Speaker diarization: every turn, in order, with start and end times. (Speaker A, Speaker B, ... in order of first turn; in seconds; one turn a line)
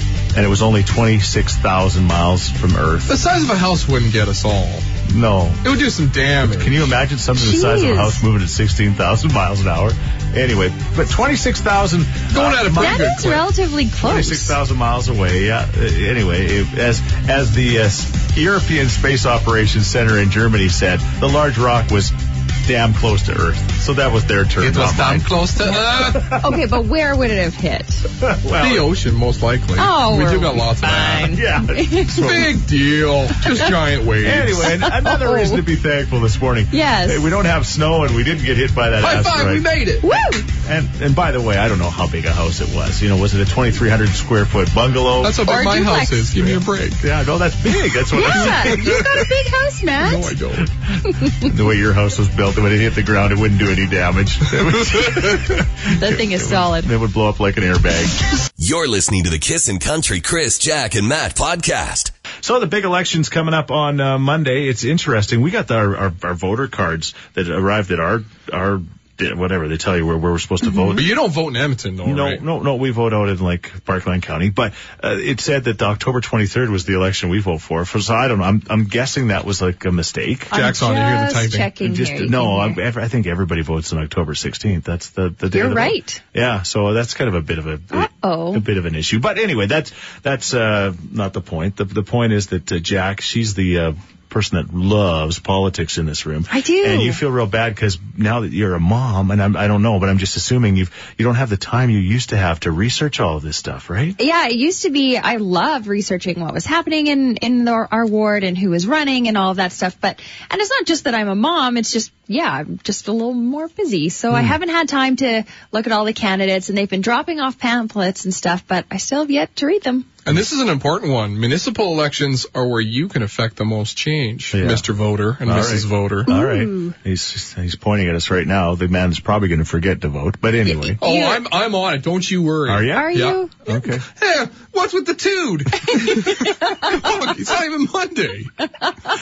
Speaker A: 0.3-3.2
Speaker B: 3.1-4.9
Speaker A: 5.0-5.6
Speaker B: 5.6-6.9
Speaker A: 6.4-13.2
Speaker C: 7.4-8.2
Speaker B: 12.3-13.5
Speaker C: 12.8-14.6
Speaker A: 14.0-26.4
Speaker B: 24.6-26.4
Speaker C: 26.2-28.1
Speaker A: 28.2-28.9
Speaker B: 28.6-31.4
Speaker C: 29.8-32.4
Speaker A: 31.3-32.5
Speaker B: 32.1-34.7
Speaker A: 34.2-39.6
Speaker C: 34.7-35.6
Speaker C: 36.7-37.3
Speaker B: 39.0-40.1
Speaker C: 40.0-40.5
Speaker A: 40.6-45.5
Speaker B: 45.2-47.0
Speaker C: 45.4-46.6
Speaker A: 47.0-49.2
Speaker C: 48.1-50.3
Speaker B: 48.4-48.9
Speaker B: 50.0-50.7
Speaker A: 51.3-58.2
Speaker C: 55.9-56.9
Speaker D: 58.6-62.1
Speaker A: 62.4-71.1
Speaker B: 70.9-72.4
Speaker A: 72.0-80.5
Speaker B: 80.5-81.7
Speaker C: 80.5-82.8
Speaker A: 81.8-104.2
Speaker C: 85.5-86.2
Speaker C: 87.9-88.6
Speaker C: 96.5-97.2
Speaker C: 104.2-120.1
Speaker A: 114.3-114.6
Speaker B: 120.2-126.3
Speaker A: 124.5-124.9
Speaker A: 125.4-131.0
Speaker C: 126.3-126.9
Speaker C: 130.7-131.5
Speaker B: 131.0-138.5
Speaker A: 132.7-134.0
Speaker C: 132.9-133.6
Speaker C: 136.1-136.5